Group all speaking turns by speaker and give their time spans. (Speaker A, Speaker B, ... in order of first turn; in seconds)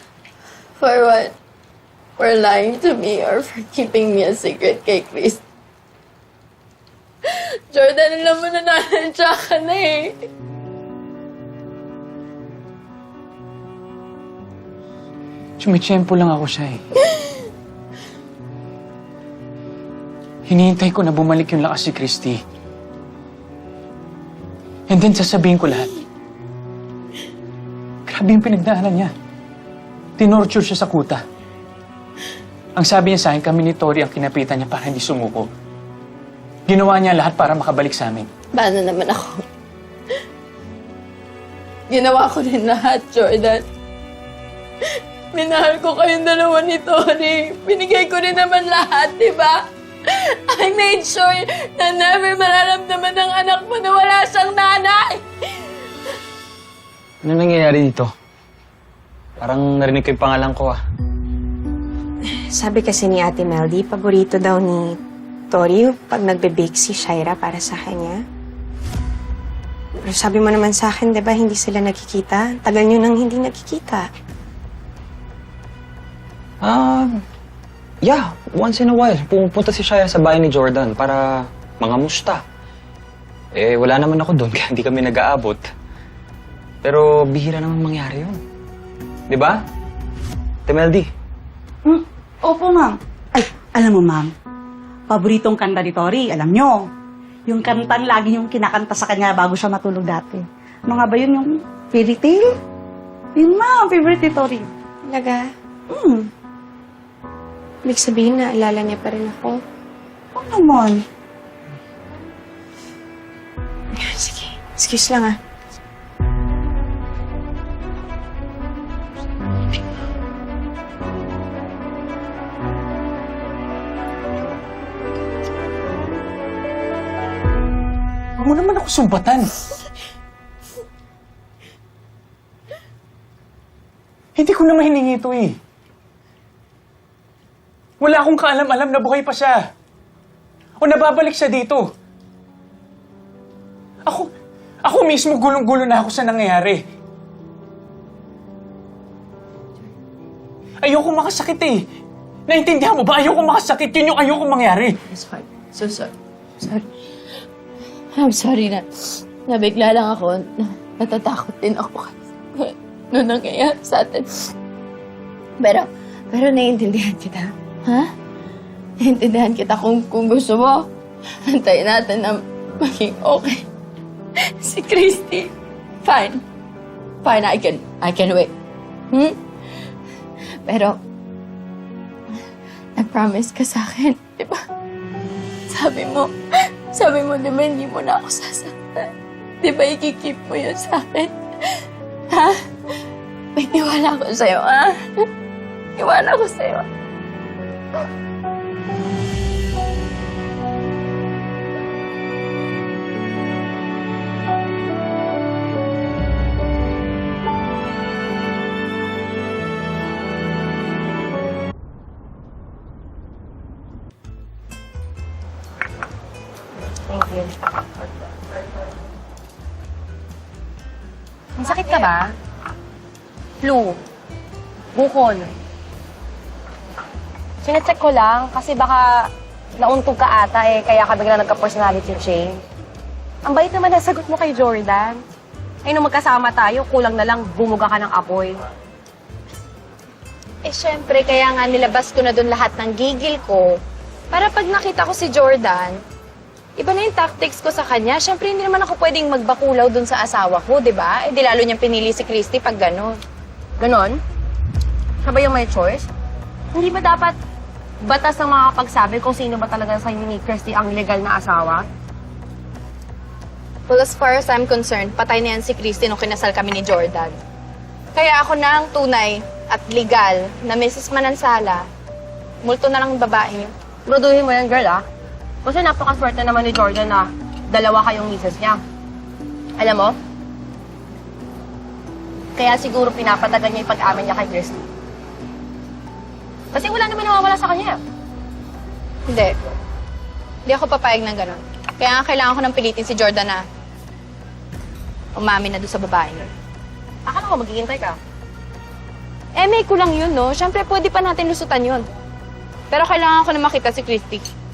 Speaker A: 0.8-1.3, 2.2-5.4, 7.2-10.2, 38.5-39.5, 41.9-43.6, 45.3-55.2, 155.1-156.9, 158.1-164.3, 165.6-168.1, 169.0-170.9, 171.5-173.7, 174.6-175.5, 176.0-176.4, 177.2-178.5, 179.1-179.4, 180.6-181.0, 183.0-184.6, 185.7-186.3, 186.9-189.1, 189.6-192.6, 193.6-195.0, 196.0-196.9
Speaker B: 15.6-16.8, 20.5-22.4, 24.9-25.9, 28.1-29.1, 30.2-31.2, 32.8-35.5, 36.7-38.3, 128.4-129.5, 134.4-135.6, 138.0-139.6, 140.8-141.9, 144.8-146.8, 150.8-151.8, 152.5-155.0
Speaker C: 57.2-58.1, 59.4-60.8, 76.6-77.2, 78.0-82.4, 83.5-85.7, 86.8-88.4, 89.3-89.6, 90.7-91.1
Speaker D: 62.3-65.0, 65.5-68.2, 70.0-74.1, 105.0-105.5, 107.8-109.6, 113.9-115.4
Speaker E: 91.8-94.3, 95.1-96.9, 97.5-102.6, 103.4-104.7, 105.9-106.3, 110.3-111.0
Speaker F: 217.1-217.5, 221.6-222.3, 223.6-224.0, 224.9-225.5, 227.6-232.6, 233.4-235.2, 235.9-238.6, 253.8-254.2, 255.2-256.1, 256.7-257.4, 258.0-261.9, 274.1-275.0, 275.6-278.8, 279.8-280.1, 282.6-284.8, 286.7-288.0, 297.3-298.2
Speaker G: 240.7-243.8, 244.3-246.0, 246.8-253.2, 263.9-267.4, 268.1-271.9, 272.6-273.7, 289.3-289.5, 290.7-293.6, 295.4-296.5, 299.6-302.1, 302.9-304.5